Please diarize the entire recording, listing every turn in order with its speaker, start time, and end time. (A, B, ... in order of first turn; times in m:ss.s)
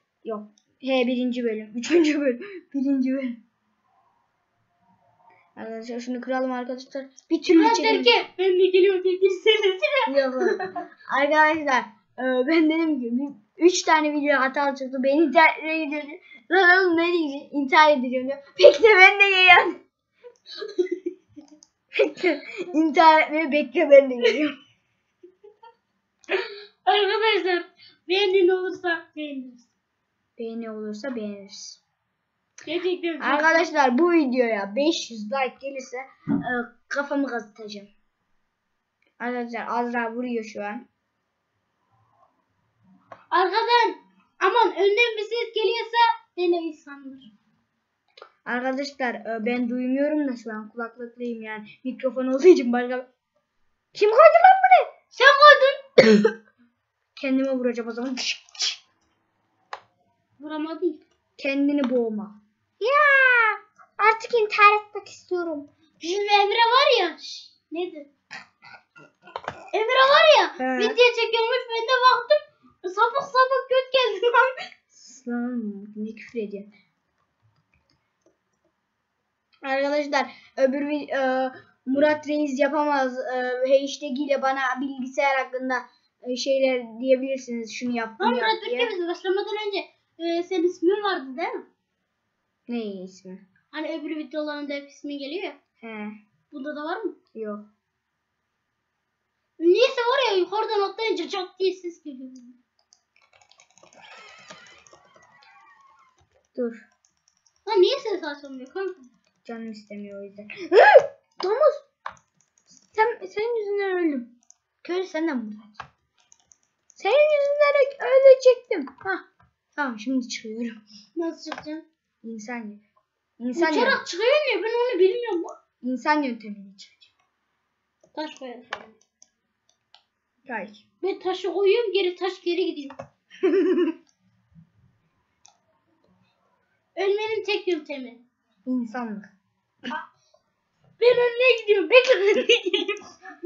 0:00.2-0:03.4 A
0:05.6-0:08.2 A
0:07.6-0:10.1 B
0:10.1-0:19.8 A
0:22.0-0:24.5 A
0:26.3-0:29.7 B
0:30.4-0:31.8 A
0:32.6-0:33.7 B
0:33.2-0:37.9 A
0:39.2-0:40.9 A
0:43.3-0:47.3 B
0:48.4-0:53.1 A
0:53.9-0:54.9 A
0:55.1-0:55.8 B
0:57.2-0:58.8 A
1:00.4-1:01.0 B
1:01.4-1:05.7 A
1:06.0-1:08.1 B
1:09.7-1:14.5 B
1:10.6-1:11.0 A
1:14.9-1:16.7 A
1:19.6-1:28.9 A
1:28.2-1:31.7 B
1:32.7-1:33.4 A
1:33.7-1:35.6 B
1:35.8-1:36.2 A
1:36.5-1:37.2 B
1:37.4-1:37.7 A
1:39.6-1:42.6 B
1:46.5-1:46.9 A
1:47.6-1:49.1 B
1:49.4-1:51.8 A
1:52.7-1:54.3 A
1:54.8-1:55.8 A
1:57.0-1:59.2 A
1:59.8-2:00.8 A
2:01.2-2:01.9 B
2:02.2-2:02.8 A
2:03.4-2:04.0 A
2:03.6-2:05.5 B
2:05.8-2:07.1 A
2:08.2-2:09.0 B
2:10.4-2:10.8 A
2:11.0-2:13.0 B
2:13.5-2:14.0 A
2:17.0-2:18.2 B
2:18.7-2:19.3 A
2:21.0-2:23.0 B